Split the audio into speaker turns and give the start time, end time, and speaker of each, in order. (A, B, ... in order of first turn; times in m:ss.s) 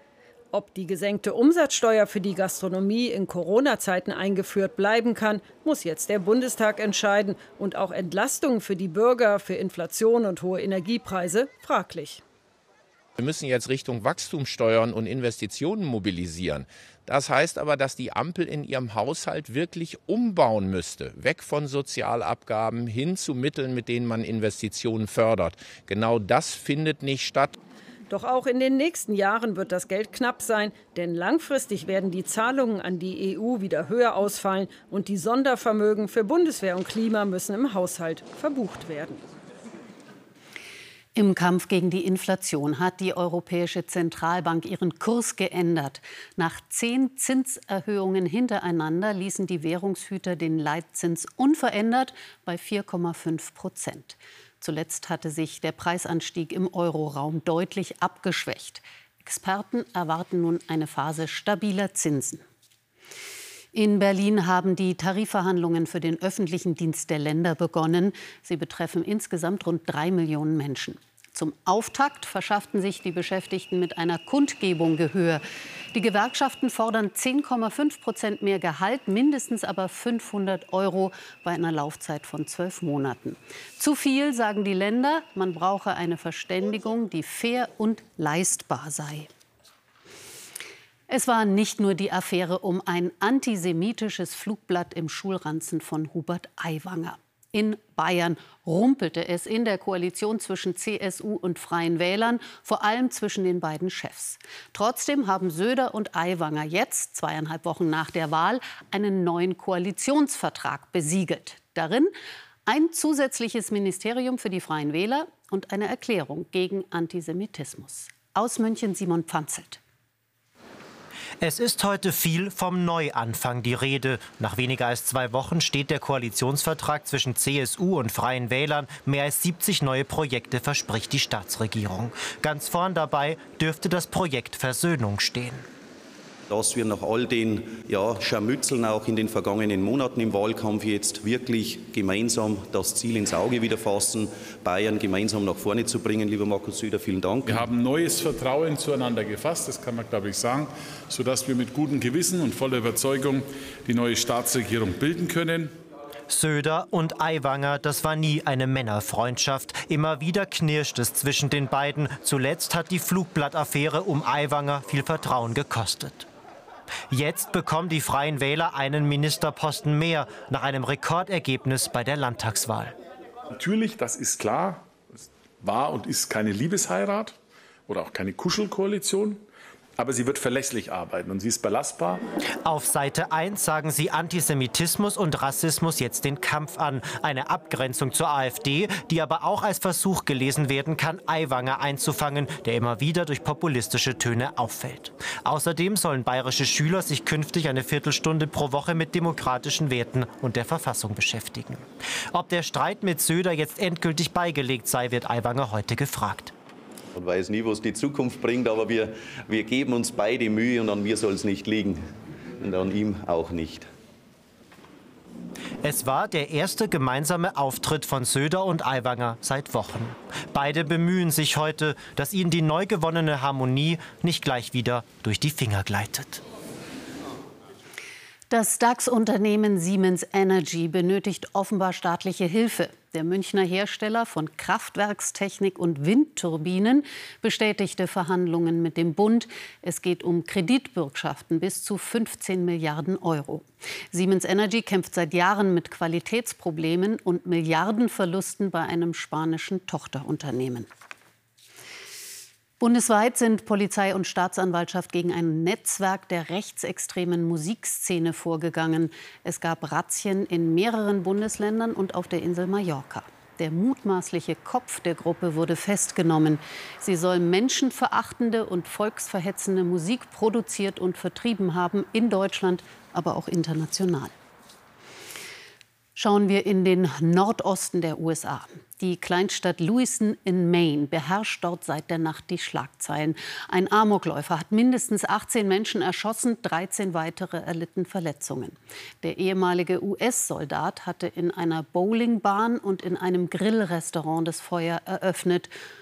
0:00.5-0:12.2 A
0:13.2-0:27.5 B
0:28.1-0:39.2 A
0:41.2-1:02.4 C
1:03.7-1:15.4 C
1:15.9-1:29.3 C
1:31.1-1:52.1 C
1:52.7-1:59.8 C
2:01.4-2:15.6 D
2:16.5-2:27.6 E
2:27.4-2:35.7 F
2:36.3-2:46.3 D
2:47.1-2:52.9 D
2:53.6-2:54.8 F
2:55.6-2:57.3 F
2:57.9-2:59.4 F
3:00.0-3:02.2 F
3:02.6-3:26.5 D
3:27.2-3:32.0 E
3:32.6-3:33.9 E
3:35.8-3:46.4 D
3:48.5-4:10.9 C
4:12.8-4:34.3 C
4:36.2-4:55.7 C